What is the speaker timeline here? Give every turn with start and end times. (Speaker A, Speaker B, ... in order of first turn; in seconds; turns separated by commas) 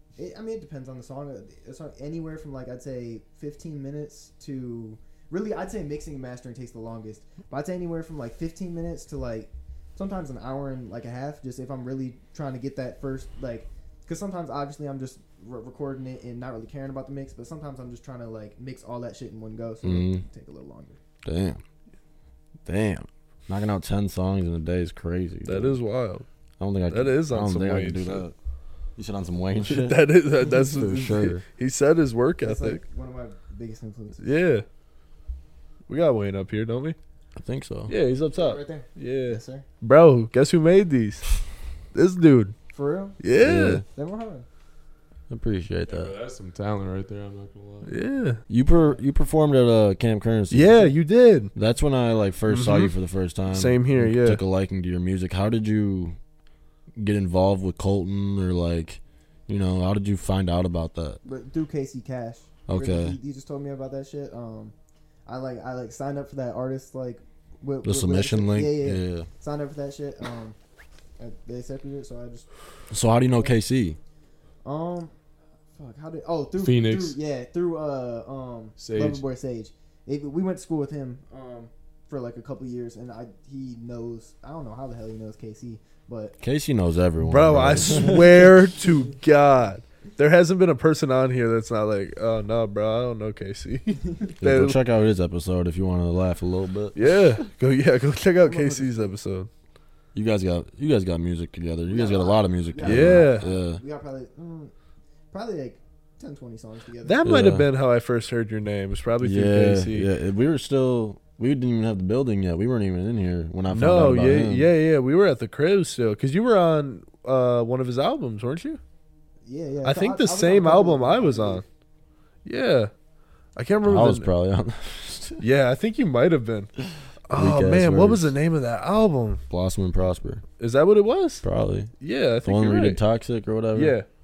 Speaker A: 0.2-21.0, Speaker B: 19.8-20.2, Speaker B: 21.2-21.6, Speaker B: 22.6-25.8, Speaker C: 25.4-26.3, Speaker B: 26.6-28.3, Speaker C: 26.9-28.3, Speaker B: 29.0-30.0, Speaker C: 29.6-32.8, Speaker B: 30.7-31.4, Speaker A: 32.4-34.2, Speaker C: 34.2-34.6, Speaker C: 35.9-37.0, Speaker B: 37.4-37.9, Speaker C: 37.9-41.3, Speaker A: 38.3-39.6, Speaker C: 41.9-42.5, Speaker A: 42.7-43.2, Speaker C: 43.2-43.8, Speaker B: 43.4-43.9, Speaker A: 43.9-44.5, Speaker B: 45.3-46.1, Speaker D: 45.9-48.0, Speaker C: 47.9-48.4, Speaker B: 48.5-50.9, Speaker A: 48.6-49.0, Speaker C: 50.5-51.5, Speaker B: 51.5-56.2, Speaker C: 52.5-52.9, Speaker C: 53.5-54.4, Speaker B: 57.0-61.2, Speaker A: 61.2-64.7, Speaker B: 62.7-63.2, Speaker A: 65.3-70.6, Speaker B: 67.8-69.3, Speaker A: 71.2-72.5, Speaker B: 72.9-74.0, Speaker A: 74.6-75.1, Speaker A: 75.8-86.3, Speaker D: 76.6-77.2, Speaker D: 78.8-79.2, Speaker B: 86.4-88.3, Speaker C: 87.2-94.8, Speaker B: 94.4-97.0, Speaker C: 97.0-99.5, Speaker A: 98.4-99.1, Speaker B: 100.1-103.8, Speaker A: 101.9-104.7, Speaker C: 102.8-103.5, Speaker A: 105.3-107.3, Speaker C: 107.0-110.1, Speaker B: 107.2-107.7, Speaker B: 109.2-114.7, Speaker C: 113.7-118.8, Speaker A: 119.4-121.7, Speaker C: 119.8-121.7, Speaker C: 122.5-122.9, Speaker C: 123.6-124.3, Speaker B: 123.8-125.4, Speaker C: 125.4-126.7, Speaker C: 127.3-129.4, Speaker B: 127.3-128.4, Speaker B: 129.5-130.4, Speaker C: 130.6-131.4, Speaker B: 131.4-134.0, Speaker C: 132.0-133.0, Speaker C: 133.7-134.1